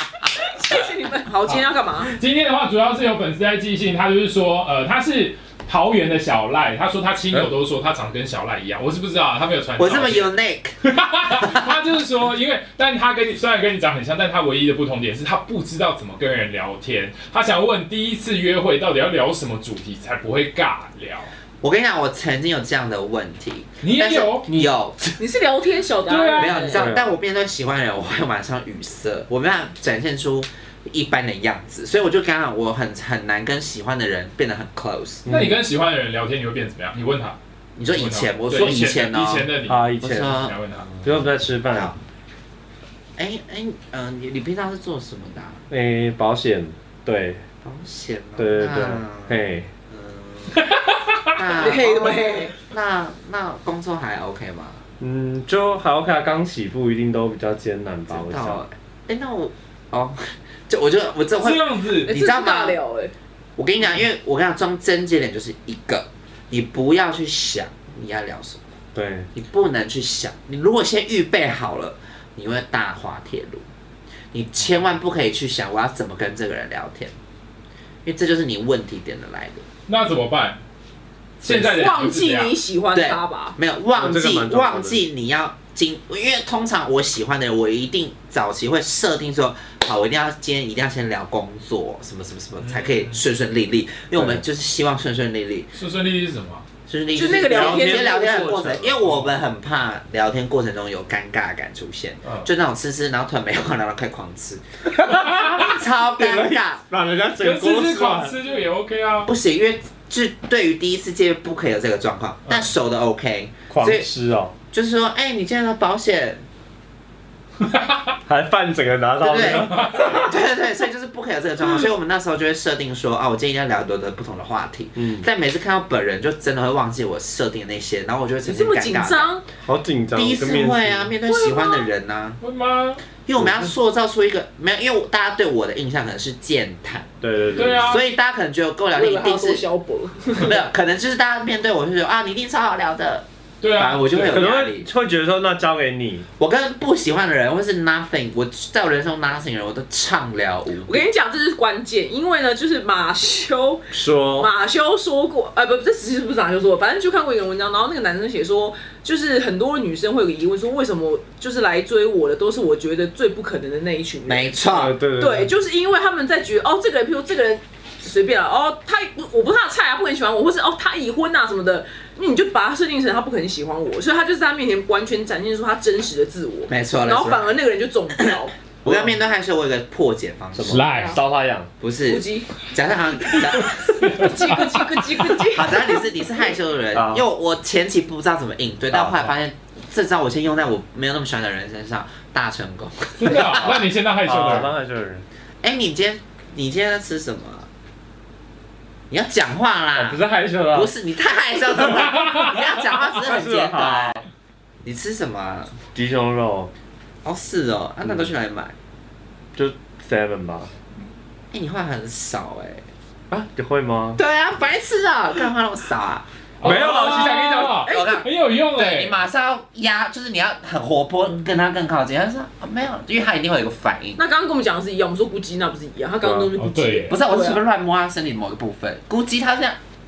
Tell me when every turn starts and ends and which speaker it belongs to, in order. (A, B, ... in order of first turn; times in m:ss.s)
0:00.3-0:02.2 A
0:01.4-0:21.3 B
0:09.8-0:10.8 C
0:11.3-0:11.8 C
0:21.6-0:25.2 C
0:23.8-0:24.5 B
0:25.2-0:26.9 A
0:26.0-0:26.6 B
0:26.3-0:35.2 C
0:26.7-0:27.1 D
0:35.2-0:35.6 D
0:35.3-0:41.0 B
0:37.8-0:40.6 C
0:39.7-0:40.4 D
0:41.0-0:42.0 D
0:43.2-0:45.6 C
0:45.7-0:47.4 D
0:47.6-0:50.7 C
0:48.4-0:49.7 D
0:50.7-0:51.3 B
0:51.4-0:54.8 C
0:51.5-0:52.5 A
0:55.0-0:58.6 D
0:58.1-1:02.8 C
1:01.4-1:02.1 B
1:02.0-1:03.1 A
1:03.6-1:08.7 C
1:08.9-1:09.3 D
1:09.3-1:13.6 C
1:14.3-1:17.1 C
1:18.0-1:19.6 C
1:19.9-1:20.6 B
1:21.4-1:22.6 B
1:21.4-1:23.6 A
1:22.9-1:35.7 C
1:23.9-1:25.0 D
1:32.6-1:33.2 B
1:34.1-1:34.4 D
1:35.7-1:36.6 B
1:36.9-1:46.8 C
1:37.1-1:38.4 A
1:37.3-1:39.0 D
1:39.1-1:39.3 B
1:42.2-1:42.5 D
1:45.0-1:48.4 D
1:47.4-1:49.3 B
1:49.2-1:54.1 C
1:53.7-1:54.5 D
1:54.7-1:56.4 C
1:58.3-2:00.4 D
1:59.2-2:09.3 C
2:04.9-2:05.2 D
2:08.4-2:09.4 A
2:09.6-2:11.1 D
2:10.1-2:12.4 C
2:11.3-2:11.9 A
2:12.4-2:13.0 B
2:13.1-2:17.1 C
2:13.4-2:13.7 D
2:17.2-2:18.0 D
2:17.5-2:18.0 B
2:17.7-2:19.6 C
2:18.9-2:20.6 A
2:20.3-2:24.9 C
2:23.6-2:24.4 B
2:24.2-2:26.2 D
2:26.4-2:31.0 C
2:30.7-2:44.6 A
2:33.9-2:34.5 D
2:44.2-2:45.0 C
2:44.7-2:45.5 D
2:45.1-2:58.5 A
2:56.7-2:57.5 C
2:58.8-2:59.2 D
2:58.8-3:00.8 C
3:00.5-3:01.7 D
3:00.6-3:01.1 B
3:00.9-3:01.2 A
3:01.8-3:03.8 C
3:02.0-3:02.5 A
3:03.4-3:05.4 B
3:03.6-3:06.5 A
3:05.5-3:13.9 C
3:06.9-3:07.3 D
3:08.9-3:09.4 D
3:13.2-3:14.7 B
3:14.2-3:15.2 D
3:15.6-3:17.7 C
3:19.1-3:24.2 C
3:19.9-3:20.9 D
3:23.2-3:24.2 D
3:24.8-3:25.8 C
3:25.9-3:26.7 D
3:27.2-3:28.7 C
3:28.0-3:28.3 D
3:29.5-3:30.7 D
3:31.5-3:32.8 C
3:33.3-3:34.2 D
3:34.2-3:37.2 C
3:36.6-3:37.8 D
3:36.6-3:39.2 B
3:37.8-3:38.2 A
3:37.8-3:44.2 C
3:44.2-3:47.6 A
3:46.2-3:46.5 D
3:46.6-3:47.1 B
3:47.1-3:49.8 C